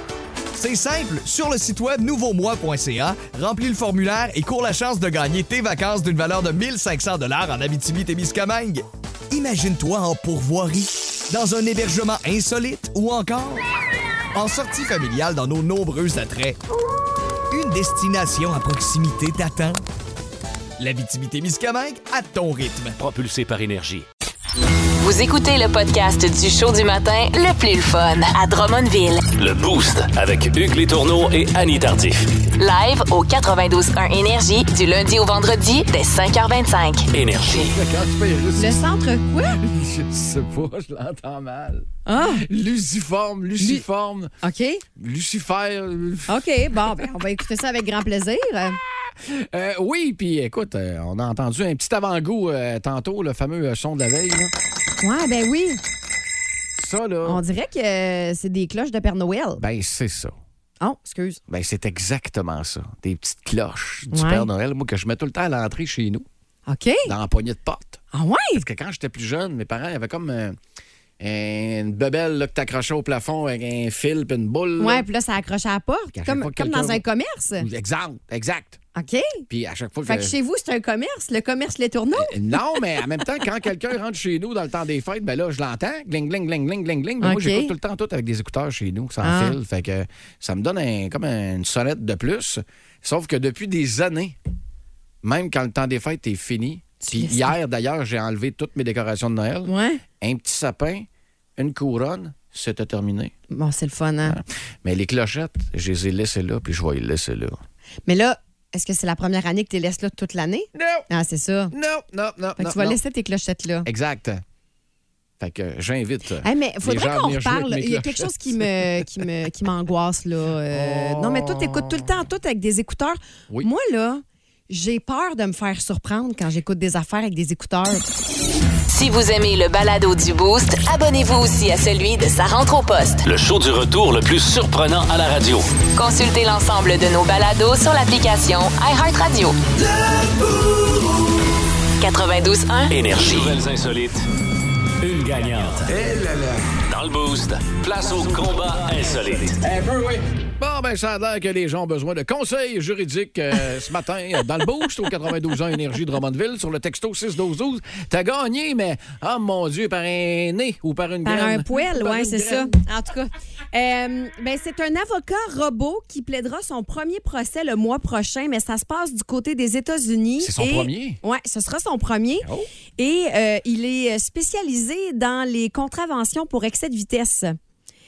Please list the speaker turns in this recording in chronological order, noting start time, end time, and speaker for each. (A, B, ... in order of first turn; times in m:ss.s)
0:00.5-0:13.6 A
0:14.4-0:16.6 A
0:17.5-0:19.8 A
0:20.8-0:23.0 A
0:23.0-0:24.1 B
0:25.0-0:29.3 C
0:29.4-0:32.3 B
0:32.6-0:37.1 C
0:37.1-0:37.8 B
0:37.4-0:38.9 D
0:38.6-0:39.6 E
0:39.5-0:44.3 D
0:42.1-0:42.4 E
0:43.6-0:43.8 E
0:44.4-0:44.8 E
0:45.0-0:47.0 D
0:46.3-0:48.8 E
0:49.1-0:54.5 D
0:55.0-0:55.8 E
0:56.8-0:57.4 D
0:57.2-0:59.6 E
0:59.6-1:00.4 D
1:00.8-1:01.4 E
1:01.5-1:06.3 D
1:04.1-1:04.5 E
1:06.7-1:07.1 E
1:07.0-1:10.6 D
1:08.1-1:08.6 E
1:11.2-1:15.1 D
1:14.8-1:17.7 E
1:16.1-1:17.0 D
1:17.6-1:18.8 D
1:19.0-1:19.4 E
1:19.5-1:20.4 D
1:20.0-1:23.0 E
1:22.1-1:34.4 D
1:27.2-1:27.7 E
1:29.2-1:29.6 E
1:35.2-1:43.3 D
1:37.0-1:37.5 E
1:39.7-1:40.0 E
1:43.5-1:44.4 E
1:44.2-1:47.6 D
1:48.1-1:51.8 E
1:50.8-1:51.1 D
1:51.7-1:53.0 D
1:52.6-1:53.9 E
1:53.8-1:54.4 D
1:55.4-1:59.0 D
1:56.4-2:08.0 E
2:00.7-2:02.1 D
2:08.9-2:13.2 C
2:13.2-2:15.7 B
2:16.0-2:19.6 C
2:22.0-2:23.6 C
2:22.9-2:24.3 B
2:25.0-2:26.0 B
2:25.9-2:26.6 D
2:26.9-2:29.6 B
2:29.6-2:42.8 D
2:41.2-2:57.6 E
2:50.4-2:51.2 D
2:52.4-2:52.7 D